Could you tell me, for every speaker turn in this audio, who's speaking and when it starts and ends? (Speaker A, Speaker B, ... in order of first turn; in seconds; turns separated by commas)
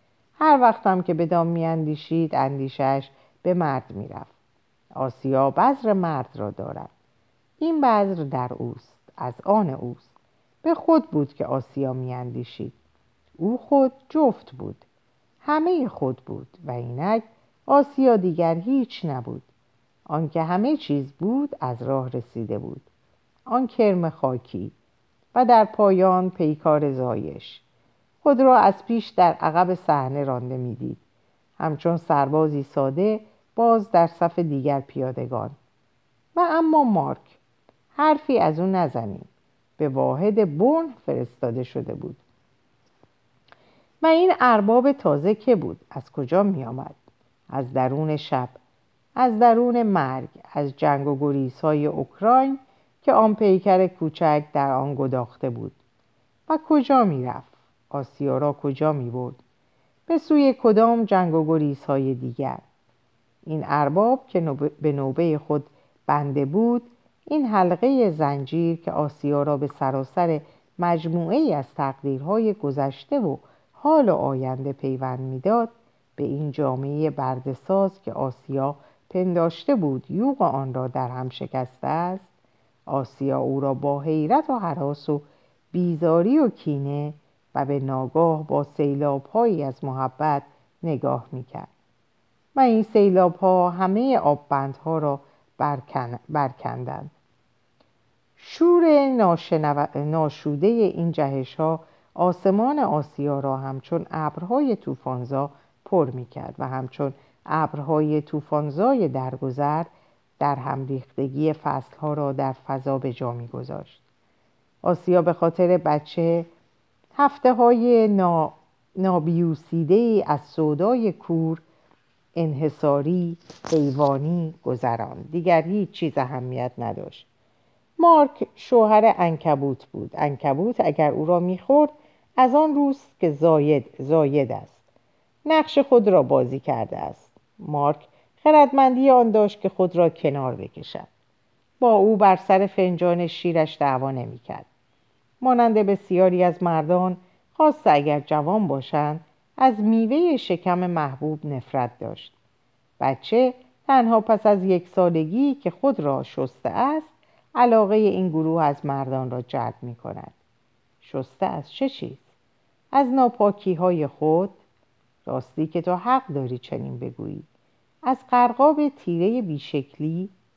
Speaker A: 0.4-4.3, Speaker A: 5.0-6.9, Speaker A: 7.6-10.1, Speaker A: 10.6-12.8, Speaker A: 13.4-14.8, Speaker A: 15.4-19.5, Speaker A: 20.1-22.9, Speaker A: 23.5-24.7, Speaker A: 25.3-27.6, Speaker A: 28.2-31.0, Speaker A: 31.6-35.6, Speaker A: 36.4-37.4, Speaker A: 38.0-42.2, Speaker A: 44.0-47.0, Speaker A: 47.5-48.6, Speaker A: 49.2-55.8, Speaker A: 56.5-59.4, Speaker A: 60.1-62.6, Speaker A: 63.5-82.3, Speaker A: 82.9-91.7, Speaker A: 92.5-97.1, Speaker A: 98.4-114.0, Speaker A: 114.8-116.5, Speaker A: 117.2-121.6, Speaker A: 122.4-127.3, Speaker A: 128.0-134.8, Speaker A: 135.5-141.1, Speaker A: 141.8-144.7, Speaker A: 145.4-152.3, Speaker A: 153.0-160.4, Speaker A: 161.0-162.3, Speaker A: 162.9-164.6, Speaker A: 165.2-167.5, Speaker A: 168.1-170.3